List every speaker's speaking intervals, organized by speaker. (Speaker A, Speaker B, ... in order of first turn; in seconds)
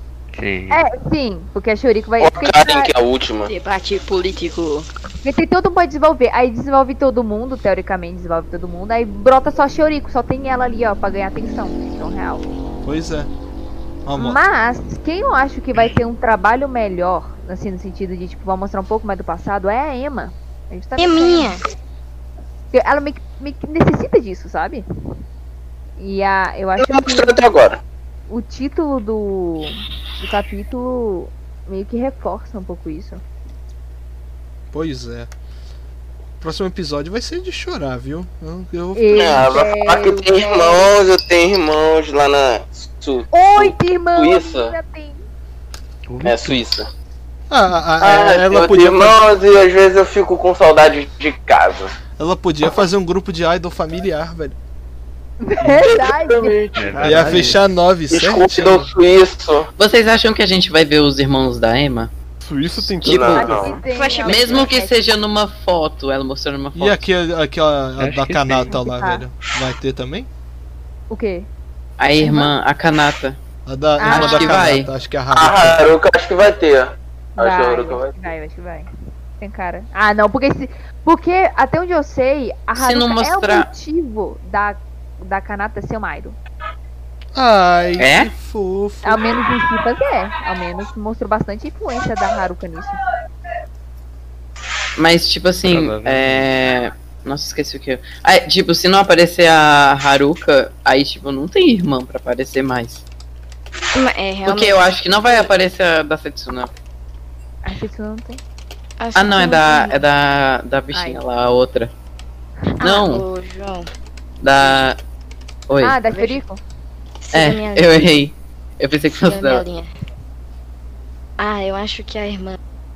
Speaker A: 0.3-0.8, 46.1-46.6, 56.8-57.5, 68.0-68.7, 95.7-96.5
Speaker B: 0.7-2.9, 5.2-12.4, 14.1-21.6, 22.7-24.8, 26.0-27.4, 28.3-33.2, 39.0-40.9, 43.3-45.2, 55.4-56.6, 63.1-65.0, 68.7-69.2, 71.1-71.5, 72.2-72.5, 74.0-74.6, 77.4-78.9, 79.4-86.4, 89.0-93.0, 107.6-108.4, 110.9-111.2, 115.8-116.6
Speaker C: 2.2-3.5, 26.8-27.8, 39.1-44.7, 46.2-46.9, 48.0-51.9, 55.6-57.1, 58.1-59.7, 63.0-63.8, 75.3-78.1
Speaker D: 3.5-4.9, 21.0-21.6, 63.8-64.7, 104.0-105.5, 109.0-110.0, 112.8-113.9, 116.1-116.4, 117.2-117.9, 119.1-119.9, 121.4-122.6
Speaker E: 12.8-13.3, 14.1-14.4, 34.7-35.3, 36.4-39.5, 47.5-49.3, 52.2-54.6, 57.0-58.9, 66.8-70.3, 73.7-75.9, 87.3-89.4
Speaker F: 56.9-57.6, 62.4-63.8
Speaker G: 59.8-62.1, 64.3-67.0, 72.0-73.4, 74.0-74.9, 82.8-83.7, 88.0-88.3, 95.0-103.0, 104.5-106.7, 109.2-111.9, 112.8-113.3, 114.4-115.0, 115.7-116.0, 117.3-119.6